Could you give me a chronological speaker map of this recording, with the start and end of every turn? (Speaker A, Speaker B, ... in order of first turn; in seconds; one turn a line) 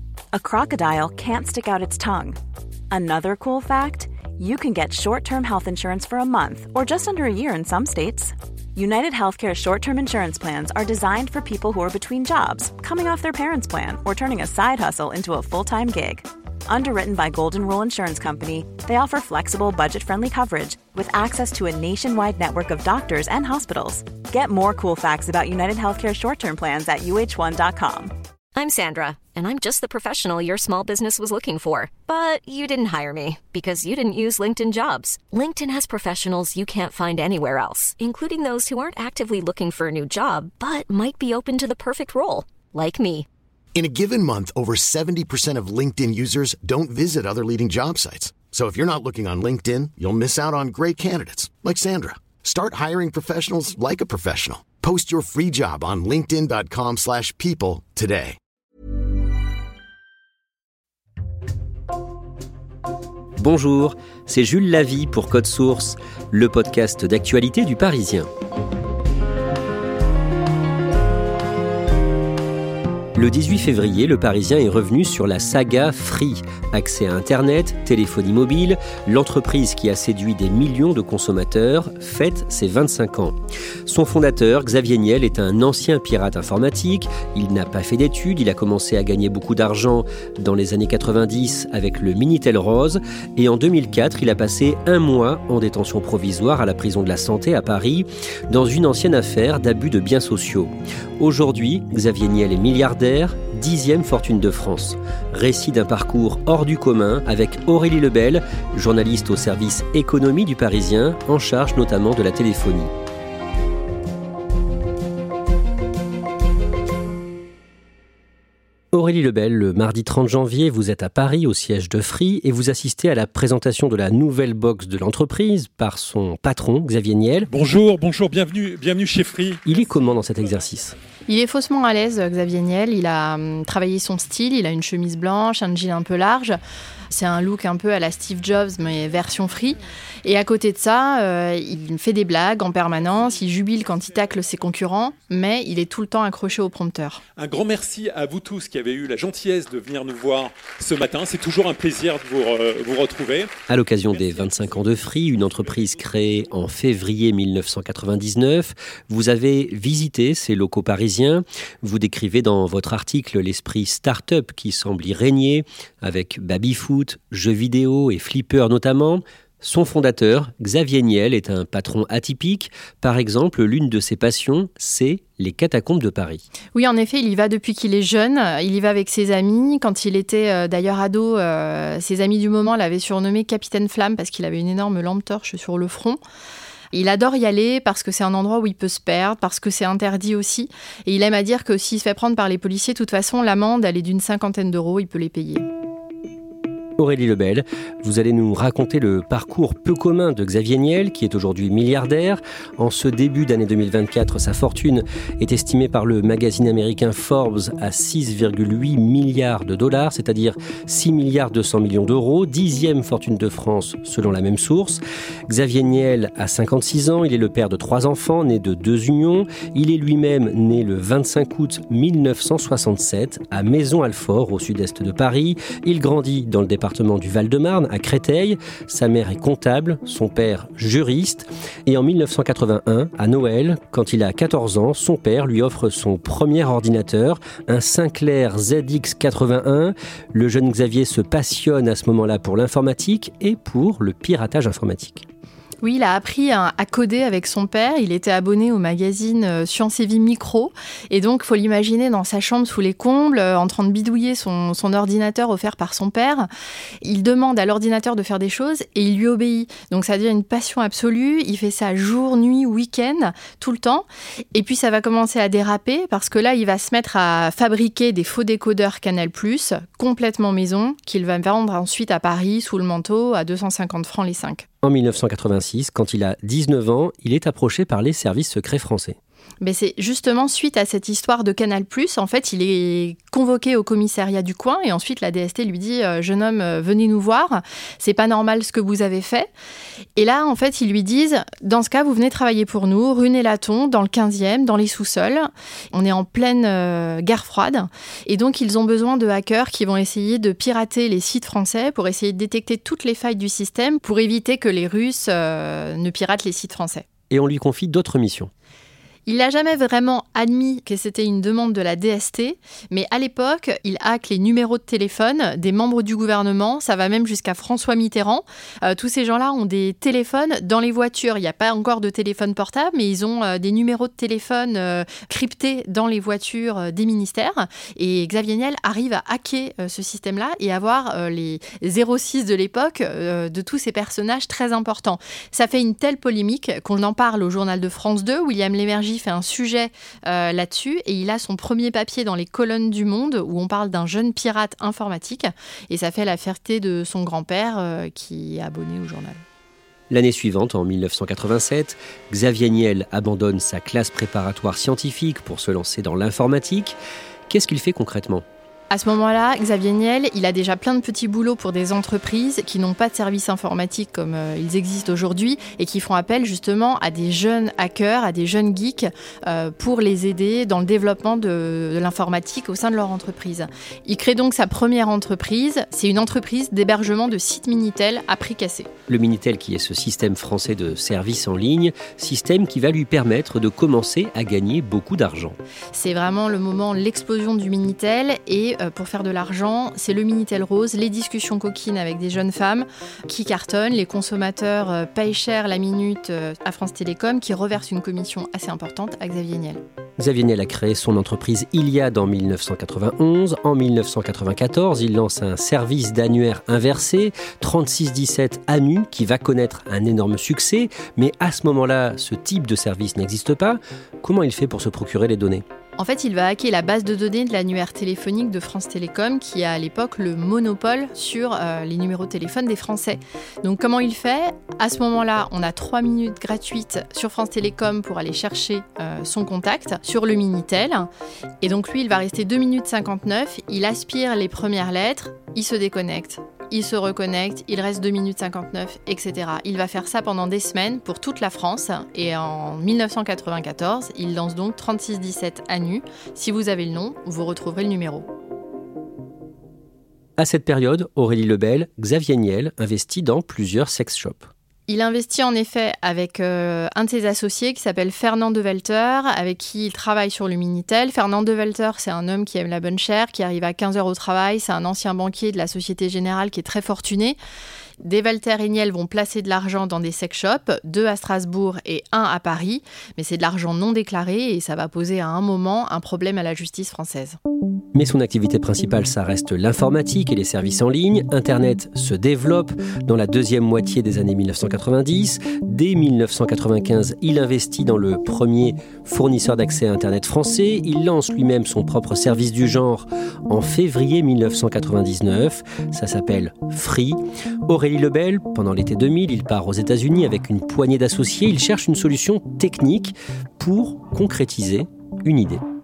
Speaker A: 0.3-2.4
Speaker A: 2.9-28.1
Speaker B: 28.5-43.3
Speaker C: 43.8-58.3
Speaker D: 63.4-68.3
Speaker D: 73.2-112.9
Speaker D: 118.9-127.5
Speaker E: 127.5-129.6
Speaker D: 129.6-130.9
Speaker F: 131.3-136.6
Speaker F: 137.1-147.2
Speaker E: 147.4-153.5
Speaker D: 153.7-176.4
Speaker E: 154.0-156.6
Speaker F: 176.7-186.2
Speaker F: 186.9-195.6
Speaker D: 197.0-245.2
Speaker F: 245.8-256.5
Speaker F: 257.0-274.6
Speaker D: 274.8-279.2
Speaker F: 279.6-289.5
Speaker F: 290.1-307.1
Speaker D: 307.3-308.5
Speaker F: 309.2-349.4
Speaker D: 350.1-357.0
Speaker D: 357.5-358.4
Speaker F: 358.9-378.9
Speaker D: 379.1-385.6
Speaker F: 385.9-399.8
Speaker D: 400.2-415.6
Speaker F: 416.0-431.1
Speaker F: 431.6-448.2
Speaker D: 450.4-454.5
Speaker F: 454.9-467.4
Speaker F: 468.0-477.4
Speaker D: 477.9-505.6